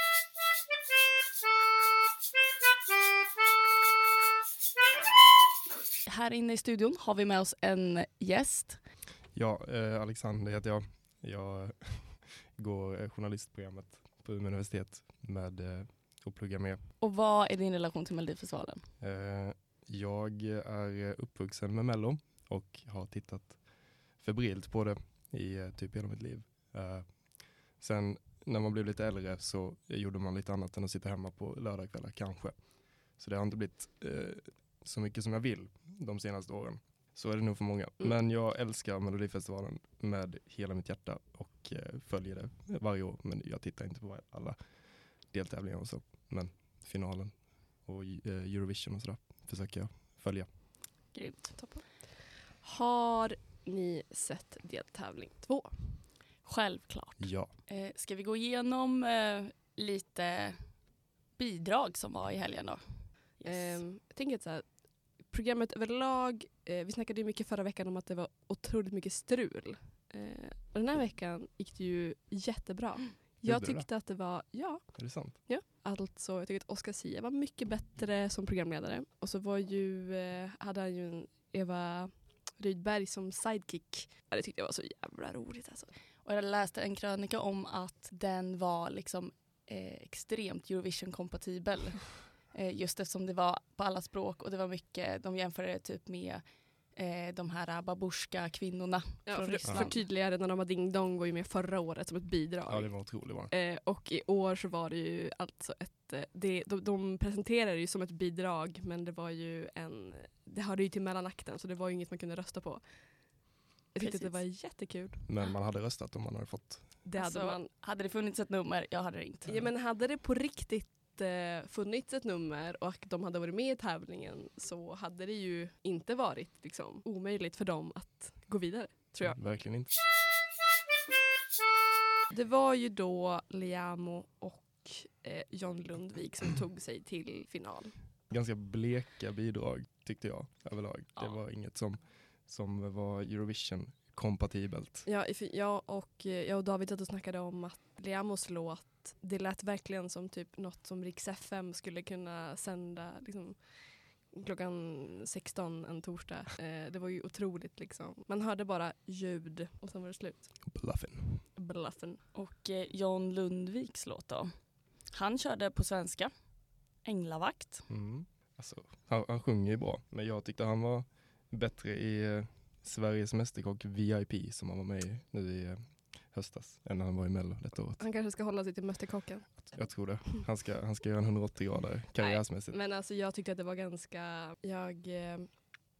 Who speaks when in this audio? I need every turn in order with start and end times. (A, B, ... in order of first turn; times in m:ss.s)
0:06.0-0:08.8 A
0:09.3-0:16.8 B
0:17.0-0:18.8 A
0:19.0-0:23.6 B
0:24.2-0:27.1 B
0:27.8-0:32.6 B
0:33.2-0:44.6 B
0:45.3-0:47.3 B
0:47.8-0:50.5 B
0:51.1-0:51.6 A
0:51.6-0:51.8 C
0:52.6-0:56.0 C
0:56.4-1:00.6 A
0:57.2-0:57.5 B
1:01.4-1:02.8 A
1:03.4-1:03.8 A
1:03.4-1:04.6 C
1:05.3-1:25.9 C
1:13.4-1:13.8 B
1:15.0-1:15.4 B
1:26.2-1:36.4 A
1:36.9-1:40.0 A
1:39.3-1:52.8 C
1:42.7-1:43.5 B
1:53.9-1:55.2 C
1:54.0-1:54.4 A
1:55.3-1:56.9 B
1:57.0-1:57.7 C
1:57.2-1:59.6 A
1:59.5-2:09.4 C
2:09.2-2:09.9 B
2:12.3-2:18.0 C
2:18.3-2:25.1 B
2:25.0-2:33.6 C
2:34.3-2:40.5 C
2:40.7-2:41.4 B
2:41.6-2:42.2 C
2:42.3-2:44.5 A
2:45.1-2:46.3 A
2:47.0-2:47.9 A
2:47.9-2:58.0 B
2:58.0-2:59.6 C
2:59.6-3:02.8 B
3:02.2-3:05.5 C